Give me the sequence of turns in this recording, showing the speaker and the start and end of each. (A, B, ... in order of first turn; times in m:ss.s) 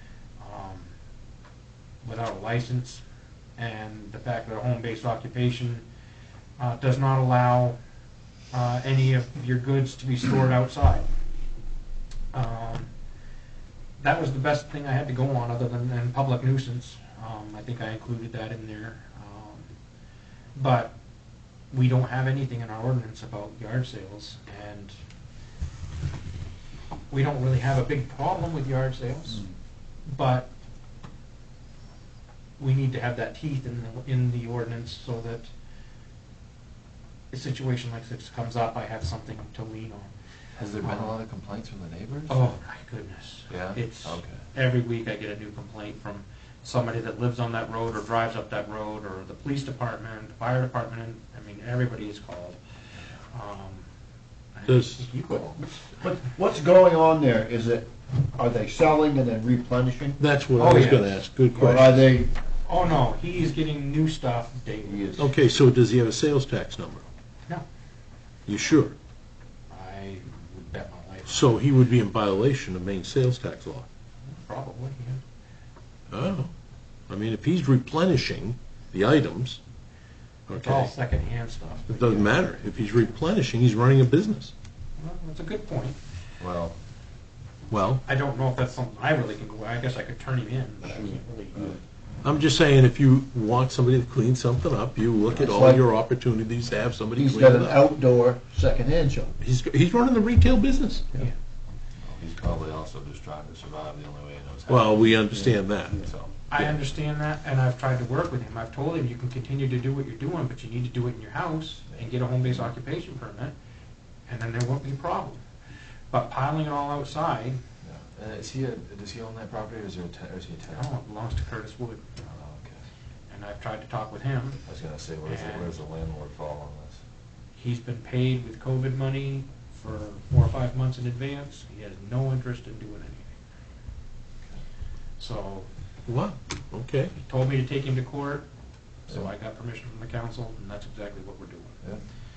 0:00.4-0:00.9 A
0:02.0-0:03.0 A
0:03.6-0:05.8 A
0:06.6-0:07.8 A
0:08.5-0:11.1 A
0:12.3-0:12.9 A
0:14.0-0:19.7 A
0:20.5-0:21.0 A
0:21.7-0:24.9 A
0:27.1-0:29.4 A
0:30.1-0:30.5 A
0:32.6-0:35.5 A
0:37.3-0:40.1 A
0:40.6-0:42.5 B
0:40.8-0:41.1 A
0:42.3-0:52.6 A
0:43.5-0:44.4 B
0:53.3-0:53.9 A
0:54.5-0:56.0 A
0:54.7-0:55.1 C
0:56.0-1:00.2 D
1:00.2-1:02.0 C
1:00.6-1:01.2 A
1:01.5-1:02.3 D
1:02.6-1:05.2 A
1:04.8-1:05.3 D
1:05.2-1:07.0 C
1:08.4-1:08.9 C
1:09.7-1:11.6 A
1:11.3-1:13.8 C
1:14.2-1:15.2 A
1:16.1-1:16.5 C
1:17.1-1:19.6 C
1:20.5-1:20.9 C
1:20.5-1:22.5 A
1:21.9-1:24.5 C
1:25.0-1:26.0 A
1:26.4-1:26.8 B
1:27.7-1:28.0 C
1:28.0-1:31.8 A
1:32.2-1:37.8 C
1:35.3-1:35.8 D
1:37.2-1:39.3 D
1:39.4-1:41.2 C
1:42.0-1:45.2 B
1:44.7-1:46.0 C
1:46.0-1:46.3 B
1:46.5-1:53.5 A
1:54.3-1:55.4 A
1:56.1-1:57.6 A
1:57.8-2:00.9 B
2:00.7-2:02.2 A
2:02.2-2:02.8 B
2:03.3-2:04.6 A
2:04.6-2:07.0 B
2:05.2-2:05.7 A
2:07.6-2:13.4 A
2:15.2-2:15.7 A
2:16.0-2:17.1 C
2:17.2-2:18.5 A
2:19.1-2:21.8 A